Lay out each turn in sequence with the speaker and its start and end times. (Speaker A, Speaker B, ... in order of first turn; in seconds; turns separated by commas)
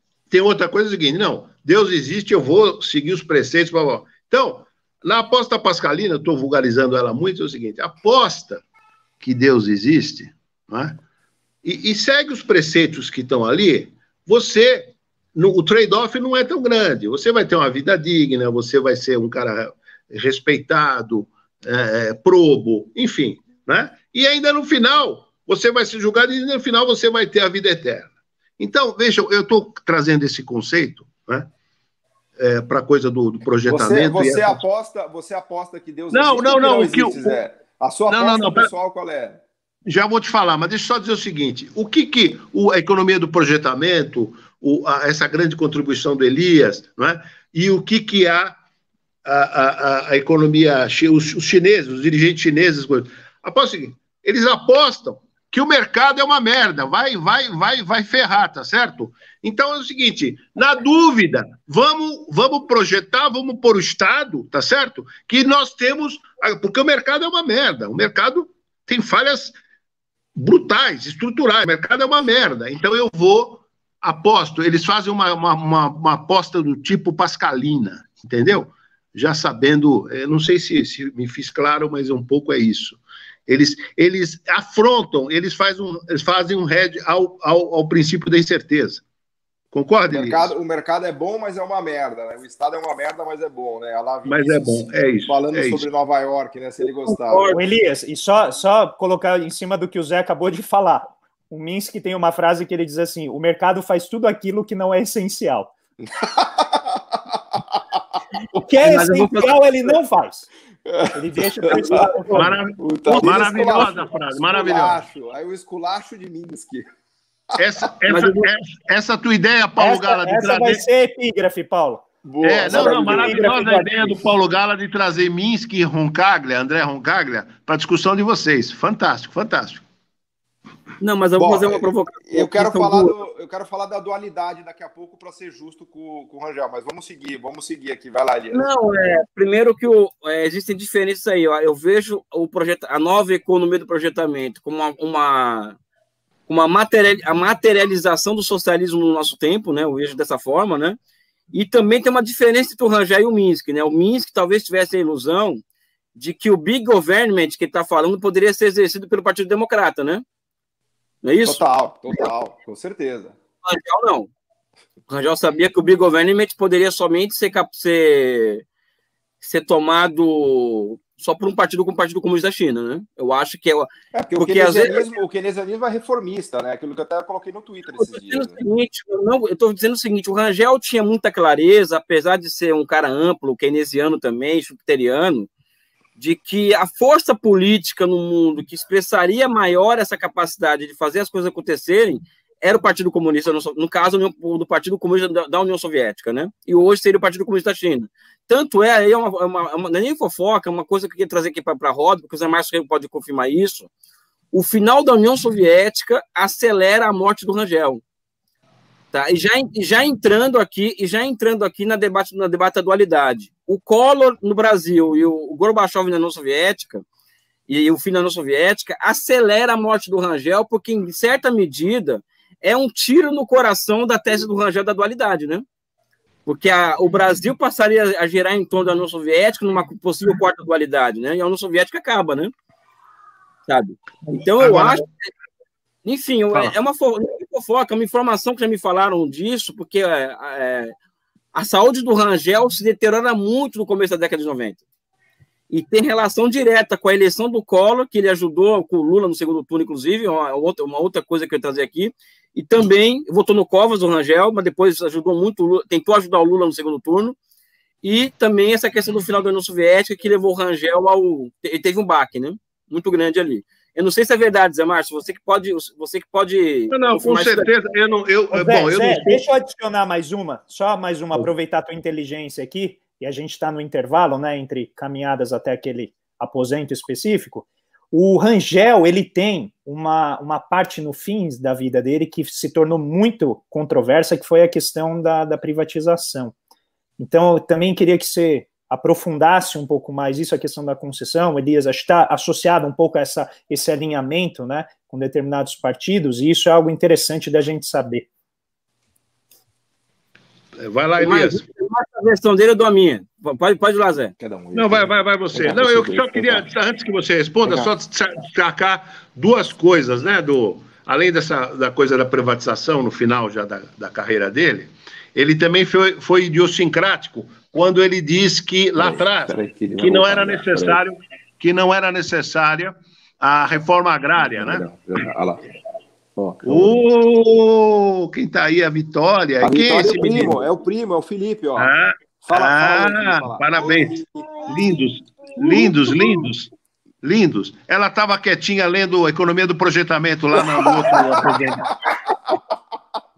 Speaker A: 0.3-8.6, Speaker A: 9.2-11.0, Speaker A: 11.6-31.5, Speaker A: 32.4-34.6, Speaker B: 33.7-39.4, Speaker A: 36.1-37.4, Speaker A: 38.1-38.7, Speaker A: 39.9-48.6, Speaker A: 49.2-69.5, Speaker A: 70.3-89.0, Speaker A: 89.7-90.5, Speaker B: 90.1-97.6, Speaker A: 94.2-95.9, Speaker C: 97.0-97.6, Speaker D: 97.5-105.7, Speaker B: 106.0-108.0, Speaker D: 108.6-110.5, Speaker C: 108.8-109.5, Speaker B: 110.8-112.0, Speaker D: 111.1-112.5, Speaker C: 111.8-112.5, Speaker A: 112.3-115.0, Speaker B: 112.8-116.8, Speaker D: 113.2-113.4, Speaker A: 117.5-120.8, Speaker C: 118.1-118.3, Speaker D: 119.8-122.0, Speaker B: 122.2-123.5, Speaker A: 122.4-129.8, Speaker D: 122.6-124.2, Speaker C: 131.0-133.1, Speaker B: 131.4-138.7, Speaker C: 138.5-145.8, Speaker C: 146.5-151.0, Speaker C: 151.5-155.6, Speaker C: 156.2-160.2, Speaker C: 161.2-161.6, Speaker B: 161.4-163.3, Speaker C: 163.6-164.3, Speaker C: 165.1-168.6, Speaker C: 169.4-175.1, Speaker B: 174.1-178.6, Speaker C: 178.0-185.5, Speaker C: 186.2-203.9, Speaker C: 204.5-208.0, Speaker C: 209.1-217.0, Speaker C: 217.7-225.6, Speaker C: 226.4-232.5, Speaker C: 233.7-235.1, Speaker A: 234.2-235.0, Speaker C: 236.0-240.9, Speaker C: 241.5-244.8, Speaker C: 245.7-257.4, Speaker C: 258.0-267.7, Speaker A: 266.9-269.4, Speaker D: 268.5-286.5, Speaker D: 287.2-298.3, Speaker A: 300.8-301.6, Speaker C: 301.2-304.3, Speaker B: 304.4-306.6, Speaker A: 304.7-324.9, Speaker B: 307.6-307.9, Speaker B: 318.9-321.0, Speaker B: 324.4-325.6, Speaker B: 326.4-327.0, Speaker A: 326.6-330.6, Speaker B: 329.6-334.5, Speaker A: 331.8-336.7, Speaker B: 335.7-336.1, Speaker A: 337.2-341.9, Speaker B: 340.6-342.6